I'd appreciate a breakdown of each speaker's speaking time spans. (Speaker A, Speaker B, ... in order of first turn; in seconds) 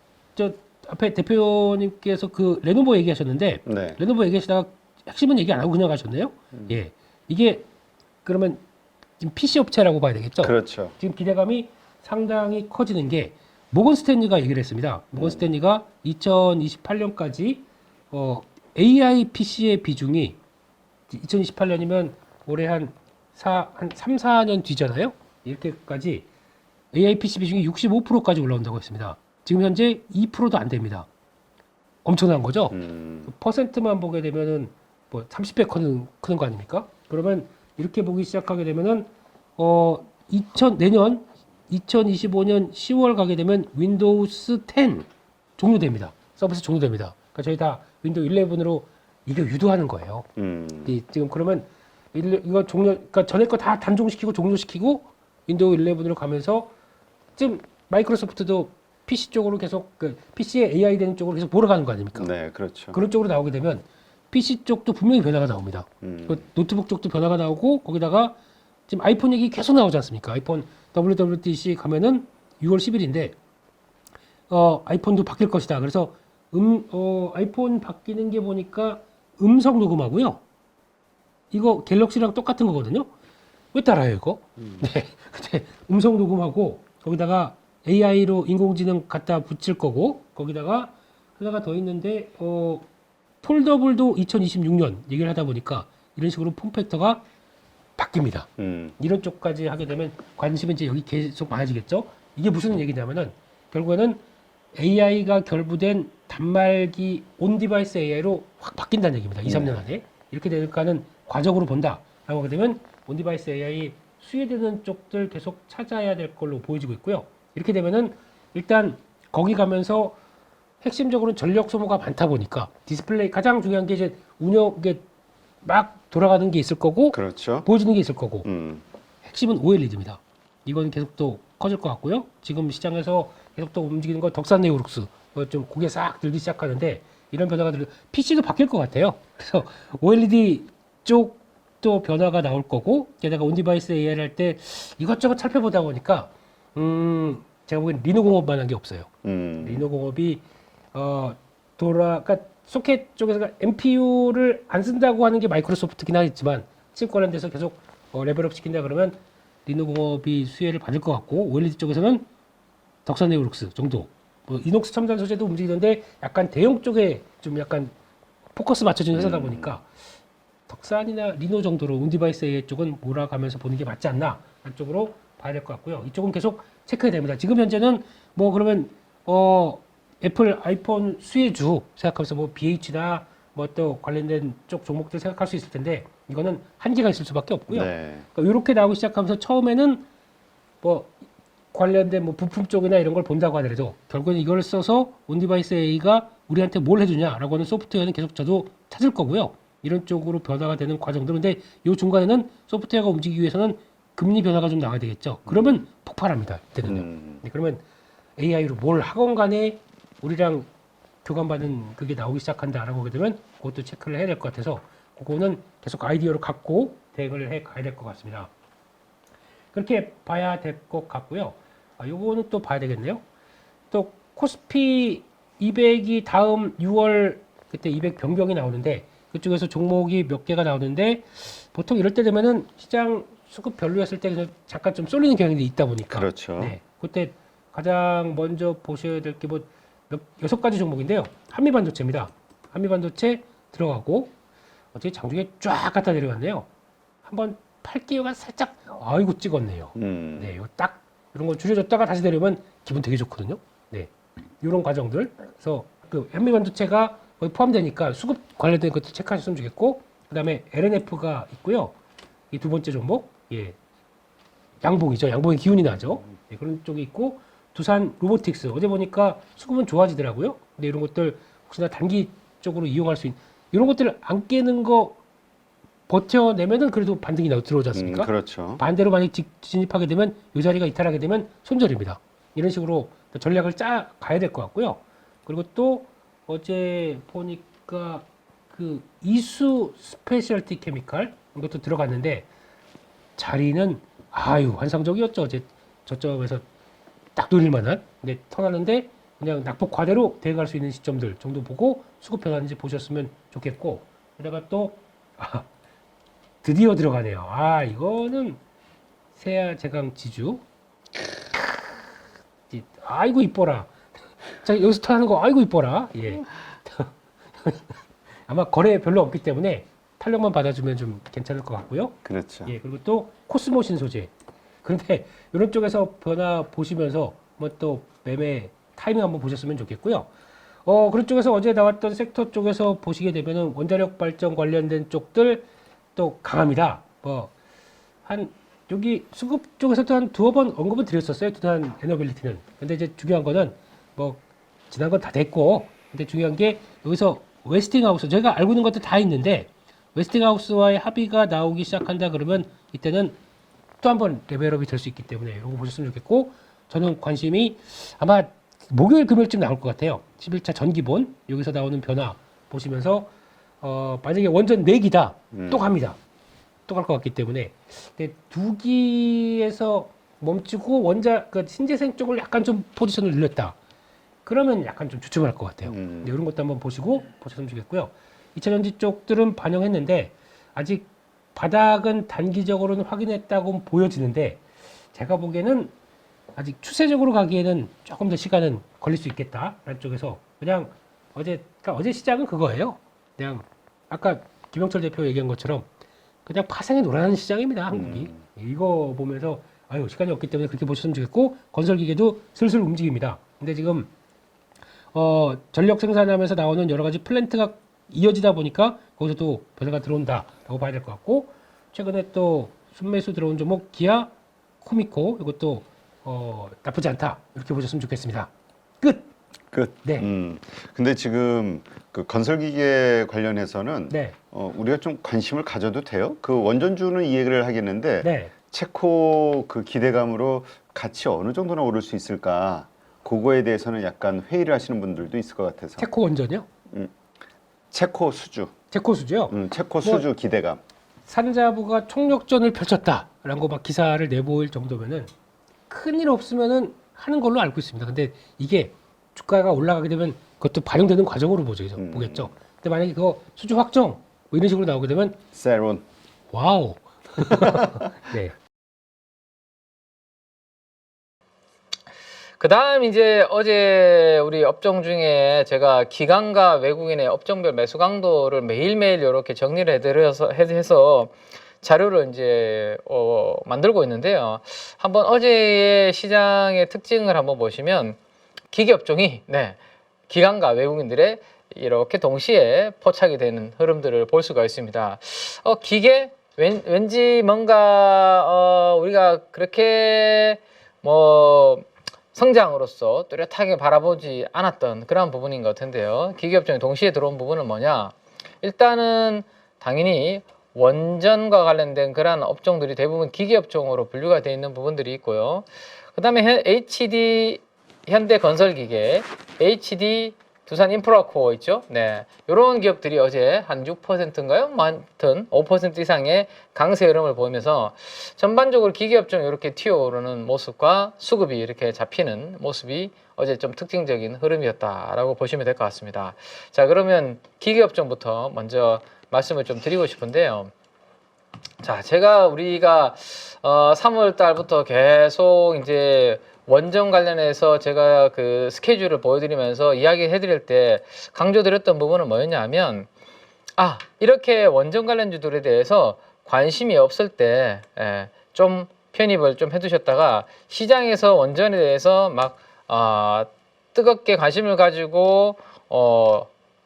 Speaker A: 0.4-7.7, 8.2-8.6, 9.2-20.4, 21.1-26.3, 26.9-31.1, 32.0-50.3, 50.9-56.7, 57.4-62.3, 62.9-68.4, 68.9-73.3, 74.5-80.4, 81.5-83.1, 83.7-92.9, 93.4-97.2, 98.0-104.2, 104.8-120.2, 120.8-125.0, 125.6-128.5, 129.2-149.1, 149.6-150.4, 150.9-162.3, 163.1-167.9, 168.6-169.9, 170.7-190.0, 190.8-191.1, 191.7-207.8, 208.4-210.7, 211.2-218.5, 219.7-223.2, 223.9-244.3, 244.9-246.7, 247.2-261.9, 262.5-263.8, 264.8-275.2, 276.1-292.5, 293.4-296.6, 297.4-305.7, 306.6-308.6, 309.4-310.6, 311.6-311.8, 312.7-313.9, 314.6-318.0, 318.5-324.3, 324.8-330.3, 330.9-337.5, 338.2-353.4, 354.0-363.3, 363.8-366.2, 366.9-373.8, 374.4-384.6, 385.1-385.9, 386.6-395.9, 396.4-404.1, 405.1-418.5, 419.0-419.3, 420.0-420.3, 424.1-424.4, 428.2-428.5, 436.0-436.7, 438.9-440.2, 441.3-445.3, 445.9-455.4, 456.5-458.6
Speaker B: 3.7-4.0, 10.4-10.9, 15.2-15.4, 32.7-33.3, 50.4-51.0, 62.1-63.0, 66.0-66.4, 98.6-99.0, 109.5-109.8, 127.1-127.7, 128.4-128.8, 149.2-149.9, 169.1-169.7, 187.7-188.3, 205.5-205.8, 206.9-207.4, 236.1-236.8, 249.9-250.5, 277.9-278.8, 322.2-322.7, 365.5-365.9, 375.9-376.3, 397.9-398.4, 419.7-436.1, 437.9-438.7, 439.5-440.8, 452.0-452.5, 455.5-456.0
Speaker C: 462.6-478.2, 478.7-479.8, 480.3-530.7, 531.8-543.1, 543.8-556.5